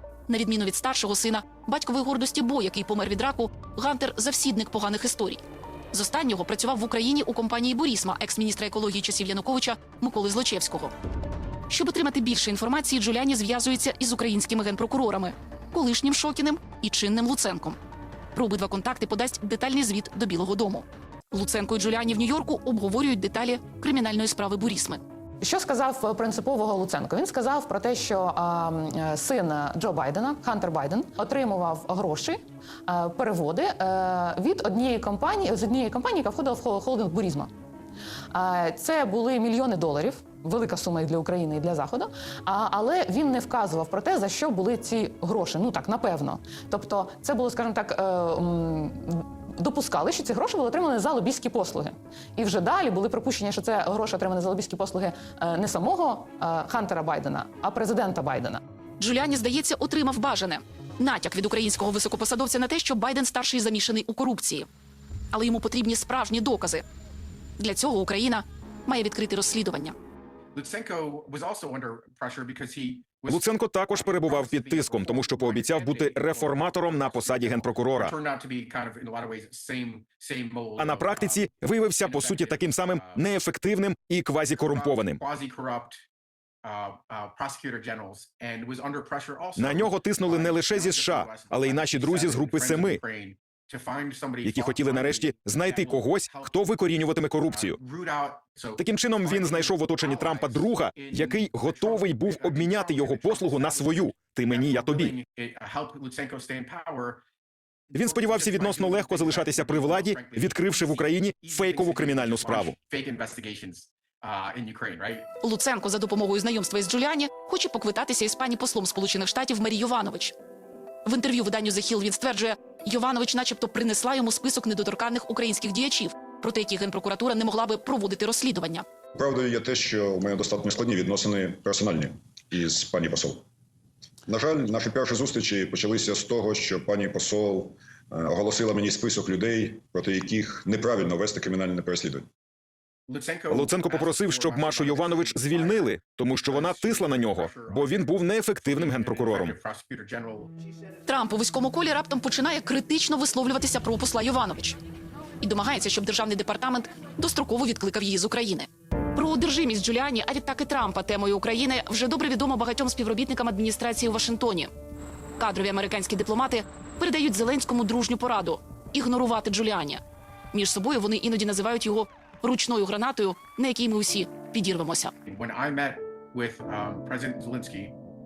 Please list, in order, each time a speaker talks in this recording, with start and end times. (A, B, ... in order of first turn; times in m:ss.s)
0:00.3-0:05.4 A
0:05.9-0:10.9 A
0:11.7-0:17.8 A
0:18.3-0:25.0 A
0:25.4-0:37.5 B
0:38.3-0:58.6 B
0:59.0-1:04.7 A
1:05.3-1:06.8 A
1:07.6-1:09.9 A
1:10.5-1:21.5 C
1:13.3-1:18.1 D
1:20.8-1:25.2 D
1:22.0-1:23.2 C
1:24.7-1:26.0 C
1:26.6-1:36.5 C
1:29.6-1:33.0 D
1:34.4-1:37.8 D
1:37.5-1:47.2 C
1:38.8-1:45.1 D
1:47.9-1:55.2 C
1:47.9-1:52.8 D
1:55.4-2:00.3 A
2:01.0-2:08.8 A
2:09.1-2:13.4 E
2:14.3-2:22.3 E
2:23.1-2:28.1 C
2:23.5-2:29.5 D
2:28.6-2:30.5 C
2:31.1-2:34.8 A
2:35.4-2:44.7 A
2:45.4-2:50.0 A
2:50.5-2:55.1 A
2:55.2-2:58.0 C